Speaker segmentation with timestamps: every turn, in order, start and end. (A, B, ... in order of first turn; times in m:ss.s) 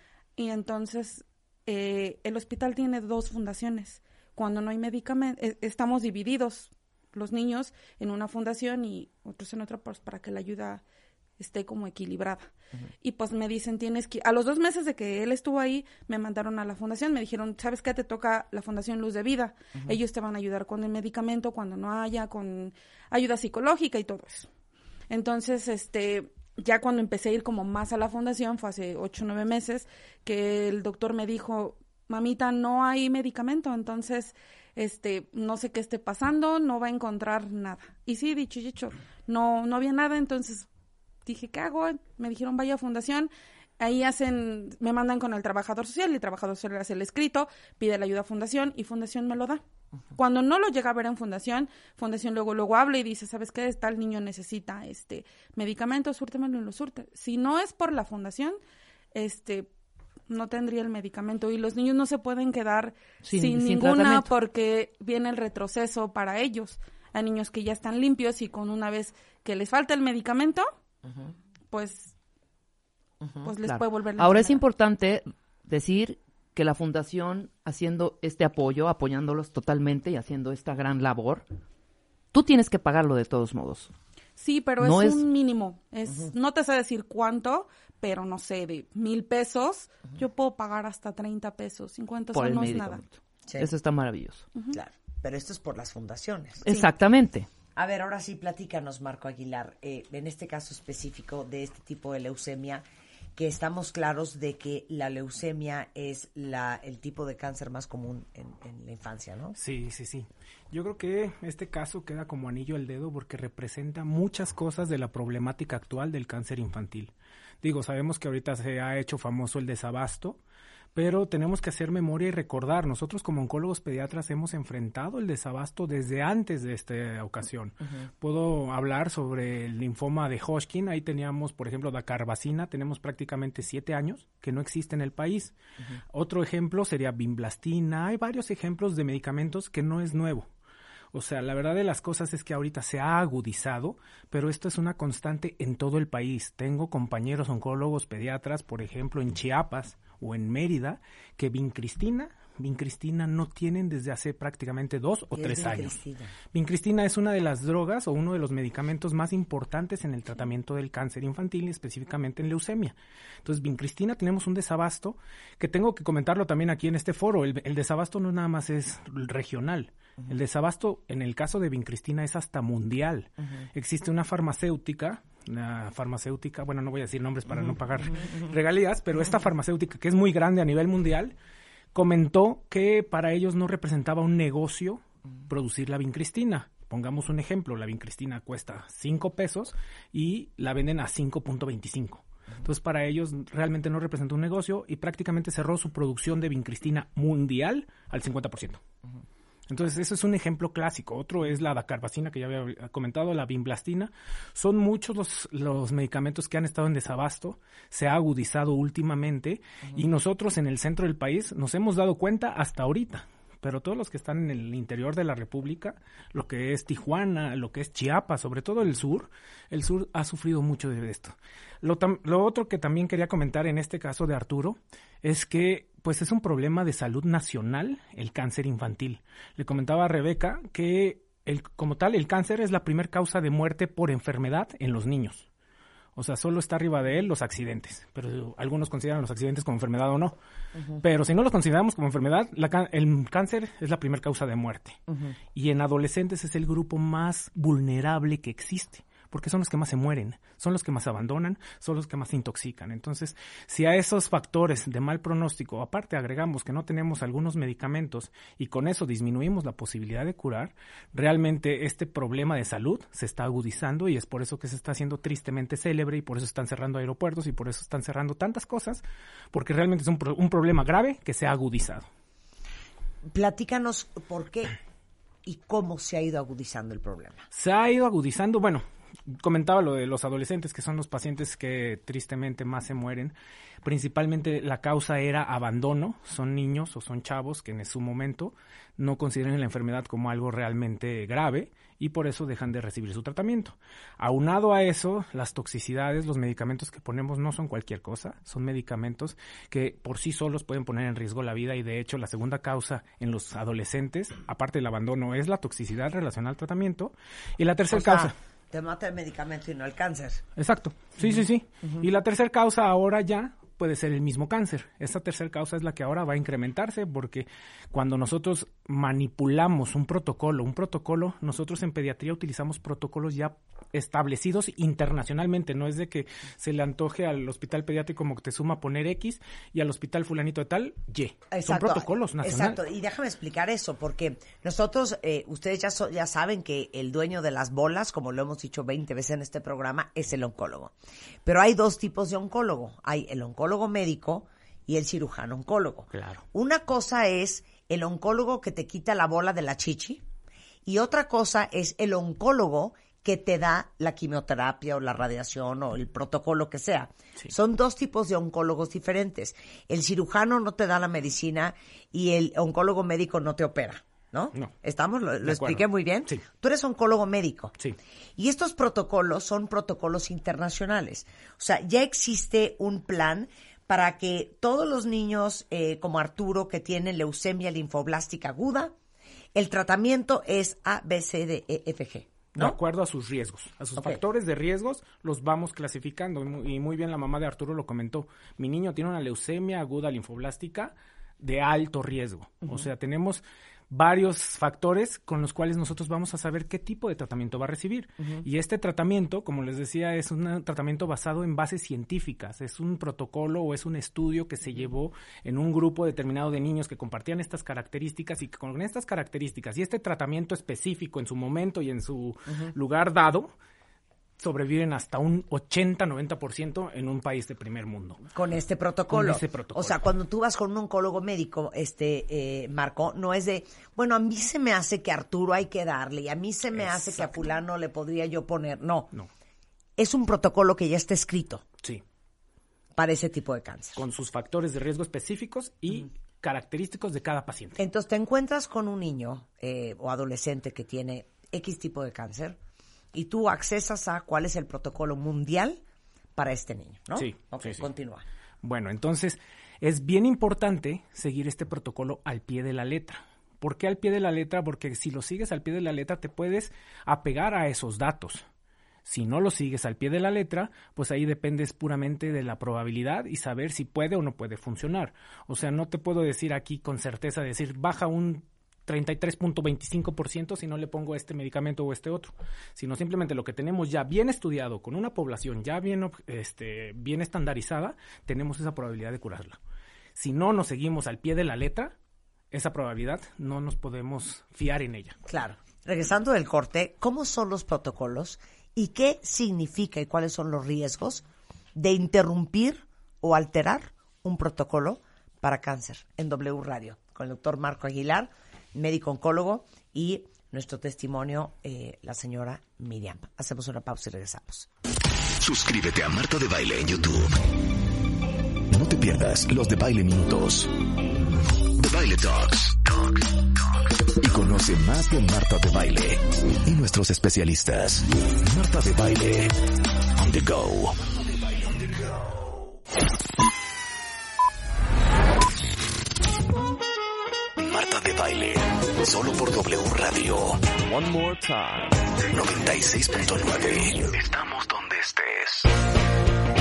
0:00.4-0:10.8 A
0:11.4-0:12.5 A
0:13.0-0:24.5 A
0:25.1-0:40.7 A
0:41.2-0:49.6 A
0:50.1-0:58.6 A
0:59.1-0:59.7 A
1:00.3-1:10.7 A
1:03.2-1:04.3 B
1:11.7-1:12.1 A
1:13.4-1:14.6 A
1:13.6-1:21.5 B
1:22.3-1:23.9 B
1:24.4-1:33.1 A
1:24.8-1:25.3 B
1:32.3-1:33.0 B
1:33.6-1:34.5 B
1:34.7-1:36.6 C
1:36.6-1:37.5 B
1:37.8-1:42.8 C
1:43.4-1:49.6 C
1:49.6-2:00.4 D
2:00.9-2:15.5 D
2:16.1-2:20.5 D
2:21.1-2:36.0 D
2:35.3-2:36.3 C
2:36.5-3:01.3 D
3:01.9-3:18.8 D
3:19.7-3:55.5 D
3:56.2-4:00.4 D
4:01.0-4:05.0 D
4:05.5-4:32.0 D
4:33.2-4:34.8 C
4:35.4-4:37.4 C
4:37.5-4:38.8 D
4:39.4-5:08.3 D
5:07.9-5:10.4 C
5:10.6-5:32.8 D
5:31.5-5:40.9 C
5:41.4-5:50.2 C
5:46.1-5:46.4 D
5:50.8-6:07.7 C
6:05.4-6:06.4 D
6:08.4-6:18.9 C
6:19.5-6:22.8 C
6:22.5-6:53.5 D
6:54.4-6:58.2 D
6:58.3-7:09.1 C
6:59.1-7:00.0 D
7:06.7-7:07.4 D
7:10.0-7:11.6 C
7:13.0-7:14.0 C
7:14.0-7:17.8 D
7:17.8-7:22.6 C
7:23.1-7:25.8 C
7:26.4-7:28.2 C
7:27.2-7:27.8 D
7:28.6-7:38.4 D
7:39.0-7:59.6 D
8:00.1-8:01.9 D
8:02.5-8:05.2 D
8:05.3-8:11.2 C
8:11.7-8:24.7 C
8:25.4-8:27.3 E
8:28.7-8:30.7 E
8:31.7-8:33.2 E
8:34.2-8:39.5 E
8:40.2-8:42.0 E
8:47.6-8:51.0 E
8:52.1-8:55.7 E